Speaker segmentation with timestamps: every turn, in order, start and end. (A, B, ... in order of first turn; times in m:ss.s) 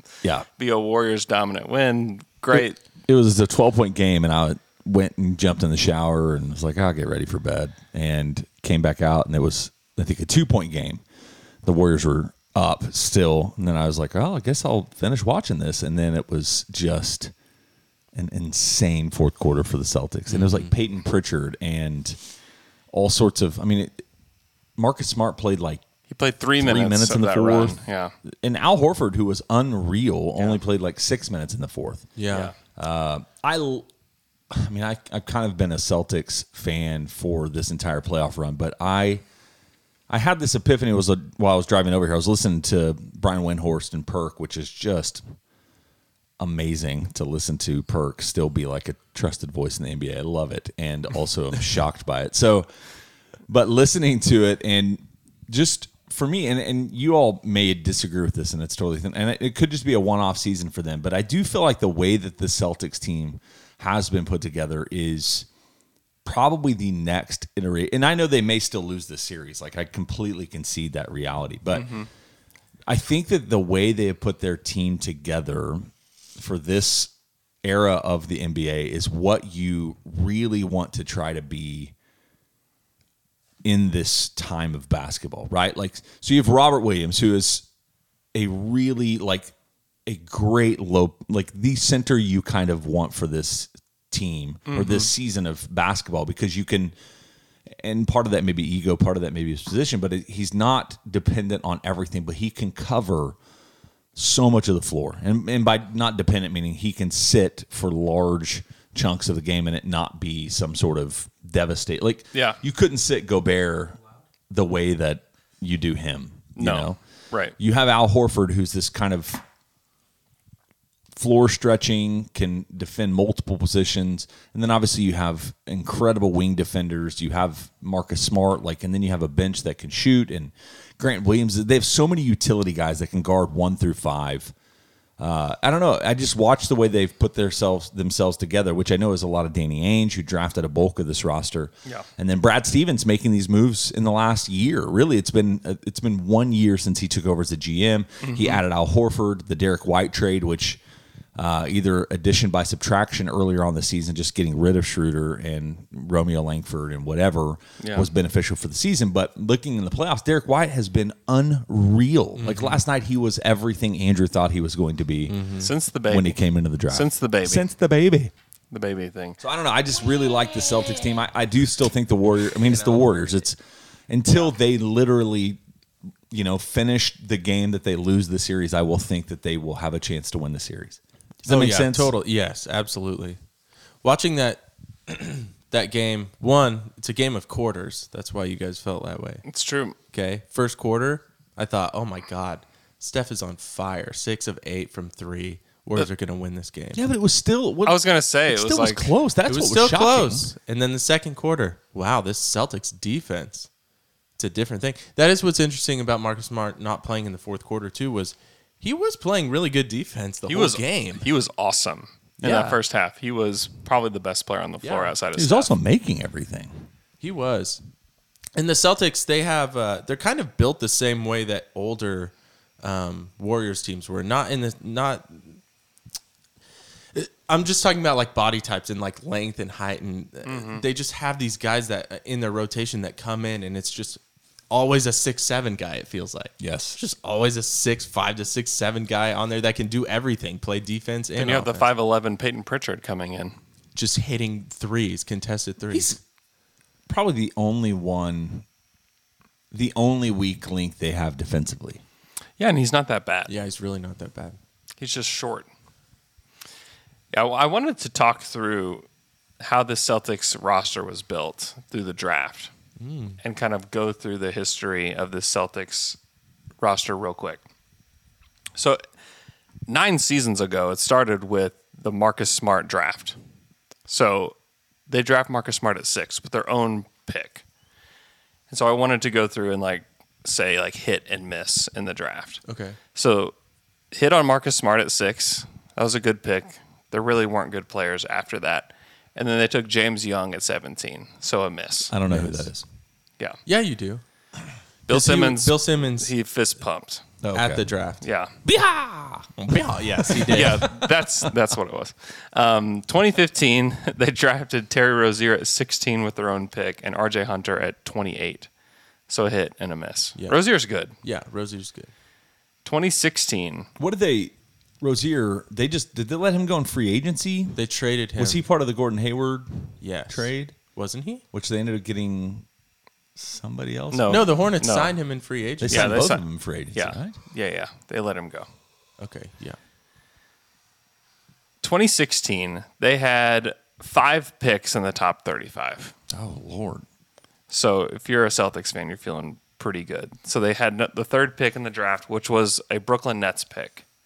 0:00.6-0:02.8 A
0:02.5-0:11.0 B
0:11.6-0:17.3 B
0:18.1-0:22.2 B
0:20.3-0:20.7 C
0:22.9-0:24.0 B
0:24.8-0:25.8 B
0:26.1-0:28.1 A
0:26.6-0:32.1 B
0:32.2-0:32.5 C
0:32.3-0:32.5 A
0:32.8-0:33.9 B
0:34.5-0:39.2 B
0:40.1-0:45.2 B
0:46.4-0:52.7 B
0:53.5-1:05.5 B
1:06.2-1:12.0 B
1:11.7-1:12.1 A
1:12.9-1:17.1 B
1:17.6-1:21.9 B
1:23.6-1:27.7 B
1:28.3-1:29.5 B
1:30.1-1:37.0 B
1:34.7-1:35.1 A
1:37.8-1:43.4 B
1:44.2-1:54.0 B
1:54.5-1:57.0 B
1:56.6-1:57.6 A
1:57.6-1:59.4 B
2:01.1-2:14.5 B
2:15.2-2:30.8 B
2:28.2-2:28.6 A
2:31.4-2:45.5 B
2:37.8-2:38.1 A
2:42.4-2:42.8 C
2:45.3-2:45.7 C
2:45.6-2:47.7 A
2:46.1-2:48.3 B
2:48.7-2:49.4 A
2:49.4-2:53.6 B
2:52.7-2:53.3 C
2:54.1-2:55.6 B
2:56.3-3:02.1 B
3:01.4-3:03.4 C
3:04.0-3:09.4 C
3:09.5-3:10.0 A
3:10.1-3:17.0 C
3:16.9-3:20.5 B
3:17.8-3:19.1 A
3:19.4-3:23.7 C
3:24.4-3:31.3 C
3:30.5-3:35.7 A
3:32.4-3:32.8 C
3:34.8-3:35.2 C
3:35.4-3:36.9 B
3:37.2-3:37.8 C
3:38.6-3:45.6 C
3:47.1-4:01.9 C
3:50.4-3:50.8 A
3:56.6-3:57.0 B
4:01.4-4:03.6 A
4:04.0-4:06.2 C
4:05.9-4:06.2 B
4:07.1-4:08.6 B
4:09.7-4:12.0 B
4:12.6-4:13.5 A
4:13.5-4:14.6 C
4:15.0-4:15.7 A
4:17.3-4:19.1 A
4:19.6-4:22.7 A
4:23.0-4:23.4 C
4:23.4-4:26.2 A
4:26.8-4:27.6 A
4:29.9-4:33.4 A
4:34.1-4:34.6 A
4:35.1-4:37.6 A
4:38.7-4:42.6 A
4:42.7-4:43.0 C
4:43.2-4:43.5 A
4:44.1-4:52.1 A
4:52.1-4:52.8 B
4:52.3-4:52.7 C
4:53.7-4:54.2 C
4:55.1-4:57.2 A
4:55.1-4:56.3 C
4:57.4-4:57.9 B
4:57.5-4:58.2 C
4:58.2-4:58.5 A
4:58.6-4:59.6 B
4:59.6-5:00.9 C
5:00.1-5:01.3 B
5:00.5-5:08.7 A
5:09.3-5:11.2 A
5:10.4-5:10.6 C
5:11.2-5:12.1 C
5:12.8-5:13.9 A
5:14.0-5:17.8 B
5:17.8-5:18.6 C
5:18.4-5:20.8 B
5:20.0-5:21.4 C
5:21.5-5:22.7 B
5:23.4-5:24.5 B
5:24.1-5:25.2 A
5:24.3-5:26.2 C
5:25.8-5:27.4 B
5:25.9-5:28.7 A
5:29.2-5:29.8 C
5:31.8-5:36.1 A
5:36.3-5:37.0 B
5:37.7-5:44.0 A